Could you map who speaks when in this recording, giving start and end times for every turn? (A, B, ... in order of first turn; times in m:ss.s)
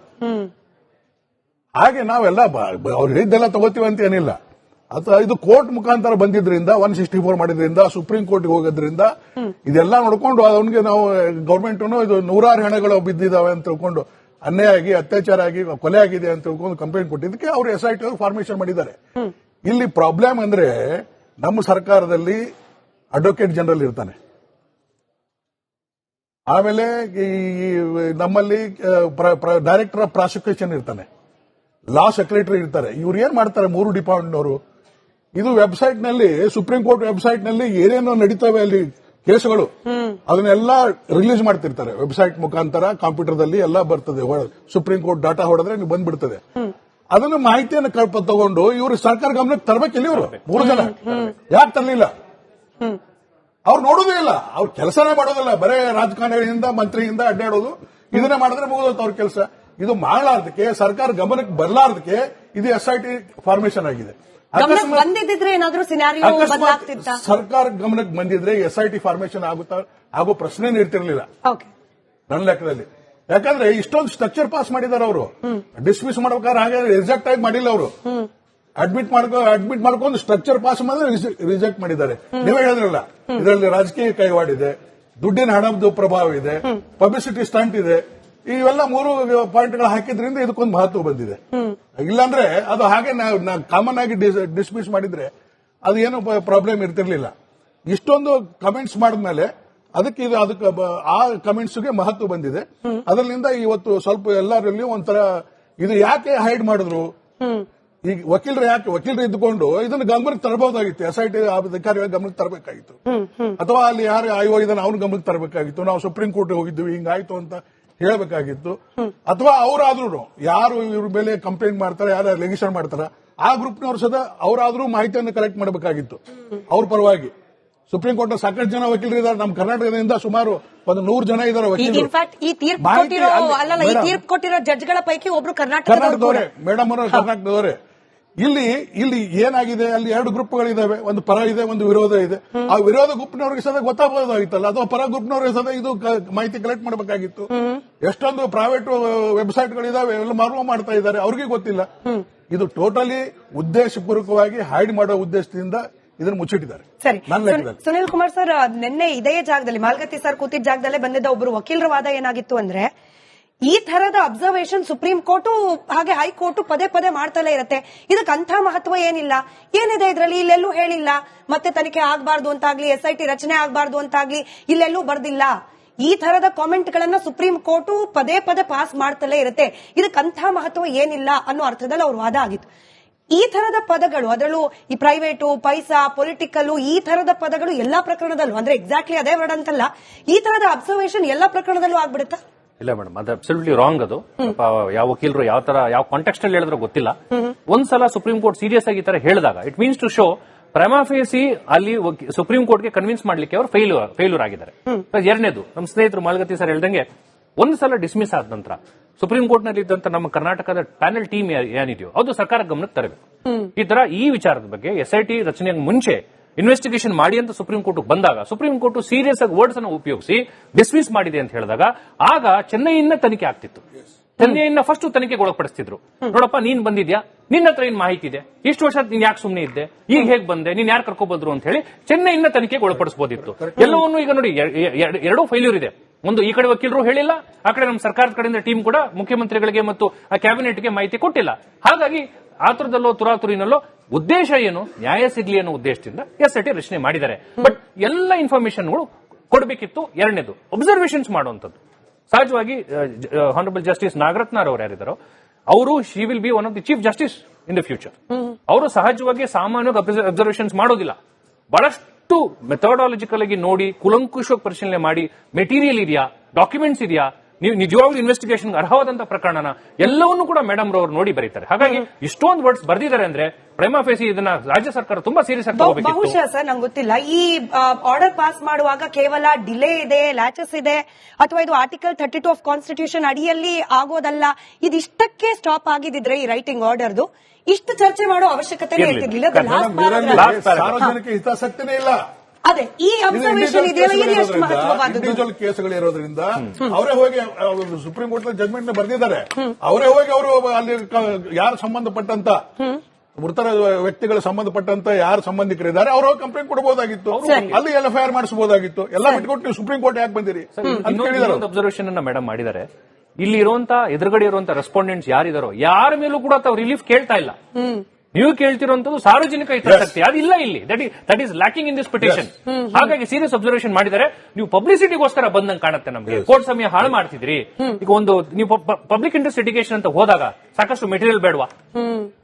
0:00.2-0:00.5 A
0:01.8-0:04.4 B
0:04.9-0:09.1 B
0:09.6-0:19.0 B
0:19.6-0:22.4 B
0:23.1-0:24.2 B
0:26.5-0:31.0 B
0:31.9-0:34.6 B
0:35.3-0:39.7 B
0:39.9-0:40.2 A
0:40.3-0:46.4 B
0:47.1-0:52.1 B
0:50.1-0:51.3 C
0:50.6-0:50.9 A
0:53.6-1:05.1 B
1:04.6-1:07.2 A
1:06.2-1:11.3 B
1:12.3-1:17.9 B
1:18.8-1:31.4 B
1:32.0-1:35.3 B
1:35.8-1:37.3 B
1:37.9-1:47.1 B
1:47.4-1:47.6 A
1:48.0-1:53.0 B
1:53.1-1:53.5 A
1:53.6-2:07.3 B
2:07.9-2:12.1 B
2:11.8-2:16.5 A
2:12.8-2:14.2 B
2:15.9-2:17.8 B
2:18.4-2:27.5 B
2:27.5-2:27.8 A
2:28.0-2:31.9 B
2:32.5-2:37.8 B
2:37.0-2:42.9 A
2:43.6-3:02.7 A
3:03.3-3:12.4 A
3:12.8-3:27.1 C
3:27.6-3:43.8 C
3:44.4-4:11.8 C
4:12.3-4:15.2 C
4:15.7-4:21.2 C
4:21.7-4:36.4 C
4:35.7-4:50.5 A
4:49.0-4:51.0 C
4:49.6-4:52.2 B
4:52.7-4:55.4 A
4:53.3-5:02.6 B
5:03.4-5:11.6 B
5:07.3-5:07.8 C
5:07.4-5:07.7 A
5:10.8-5:12.8 C
5:13.4-5:17.6 C
5:17.8-5:18.0 A
5:18.3-5:31.7 C
5:19.8-5:20.1 B
5:22.2-5:22.4 B
5:32.0-5:32.3 A